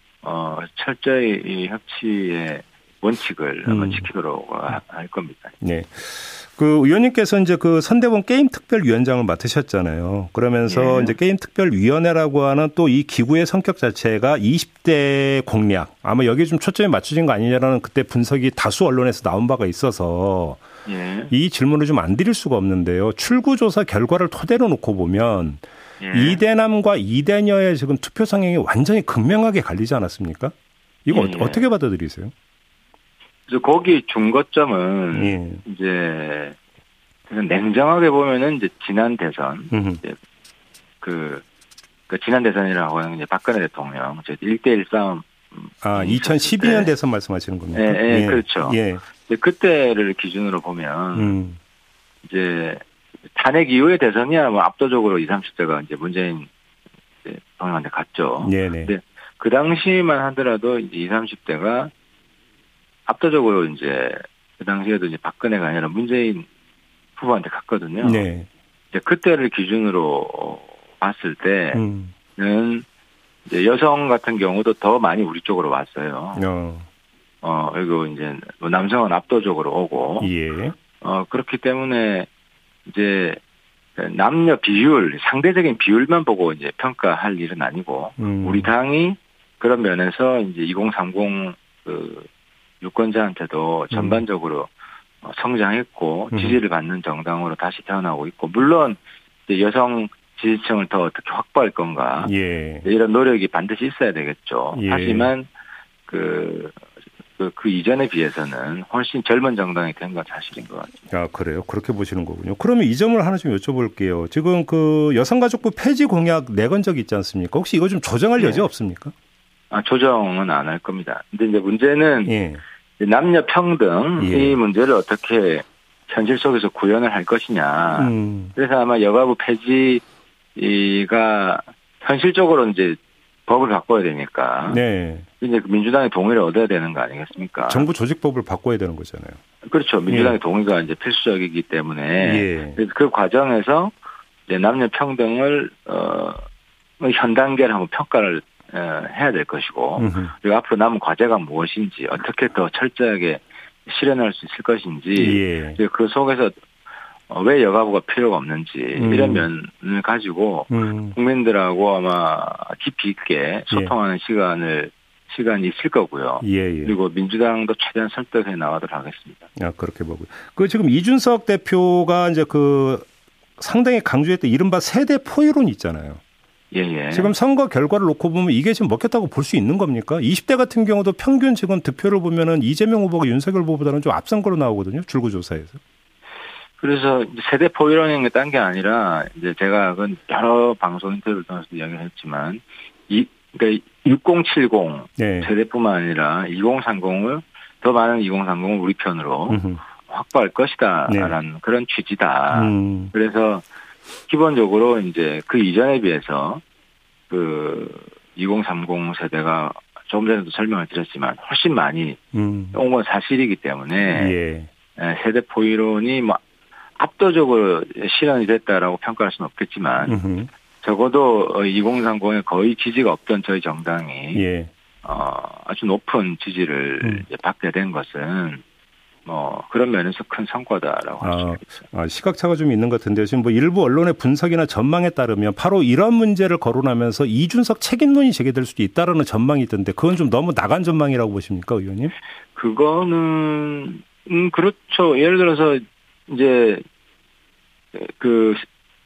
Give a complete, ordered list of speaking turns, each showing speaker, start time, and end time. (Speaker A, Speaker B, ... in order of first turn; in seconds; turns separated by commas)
Speaker A: 0.2-5.6, Speaker B: 3.7-4.1, Speaker B: 5.6-20.6, Speaker A: 10.7-11.2, Speaker A: 20.9-21.3, Speaker B: 21.3-30.5, Speaker A: 26.0-26.4, Speaker B: 31.1-32.3, Speaker A: 31.1-31.7, Speaker A: 33.5-36.6, Speaker B: 35.1-35.6, Speaker A: 37.3-40.2, Speaker B: 39.7-40.0, Speaker A: 41.0-41.4, Speaker A: 42.1-46.9, Speaker B: 45.8-49.0, Speaker A: 47.7-51.3, Speaker B: 51.1-51.6, Speaker A: 52.2-56.5, Speaker A: 57.2-61.9, Speaker B: 58.4-58.9, Speaker A: 63.1-66.5, Speaker A: 67.2-68.2, Speaker B: 68.0-68.5, Speaker A: 68.9-71.8, Speaker B: 71.7-72.1, Speaker A: 72.4-72.8, Speaker A: 73.5-76.4, Speaker B: 76.4-76.9, Speaker A: 77.4-80.3, Speaker B: 80.2-80.8, Speaker A: 81.0-82.3, Speaker A: 82.9-83.4, Speaker A: 84.0-92.3, Speaker B: 88.2-88.7, Speaker A: 92.8-94.7, Speaker B: 93.9-94.2, Speaker A: 95.2-102.3, Speaker B: 96.3-96.6, Speaker B: 102.2-102.9, Speaker A: 102.8-105.5, Speaker B: 104.7-105.3, Speaker A: 106.1-106.8, Speaker A: 107.4-111.0, Speaker B: 111.1-119.1, Speaker A: 118.4-118.7, Speaker A: 119.7-122.3, Speaker B: 122.2-122.6, Speaker A: 123.0-130.0, Speaker B: 124.2-124.6, Speaker B: 128.0-128.5, Speaker A: 130.6-134.8, Speaker B: 134.7-135.3, Speaker A: 135.4-137.9, Speaker B: 137.7-139.4, Speaker A: 139.7-143.9, Speaker B: 140.1-140.4, Speaker B: 142.2-142.8, Speaker A: 144.5-146.4, Speaker A: 147.0-156.5, Speaker B: 150.0-150.3, Speaker B: 155.2-155.8, Speaker A: 157.3-169.5, Speaker B: 159.0-159.5, Speaker B: 160.7-161.2, Speaker B: 166.4-166.9, Speaker B: 169.6-173.1, Speaker B: 173.6-176.2, Speaker A: 176.7-177.3, Speaker B: 177.1-185.8, Speaker A: 186.8-203.6, Speaker B: 195.2-195.5, Speaker B: 199.5-199.8, Speaker B: 201.1-201.3, Speaker B: 202.5-203.1, Speaker A: 204.3-206.6, Speaker A: 207.3-212.2, Speaker B: 212.3-212.8, Speaker A: 212.7-214.4, Speaker B: 214.1-214.7, Speaker A: 215.0-216.4, Speaker A: 217.0-220.2, Speaker B: 220.1-220.5, Speaker A: 220.8-224.4, Speaker B: 224.3-224.7, Speaker A: 225.0-228.6, Speaker A: 229.3-231.8, Speaker B: 231.2-242.1, Speaker A: 242.6-246.8, Speaker A: 247.9-248.7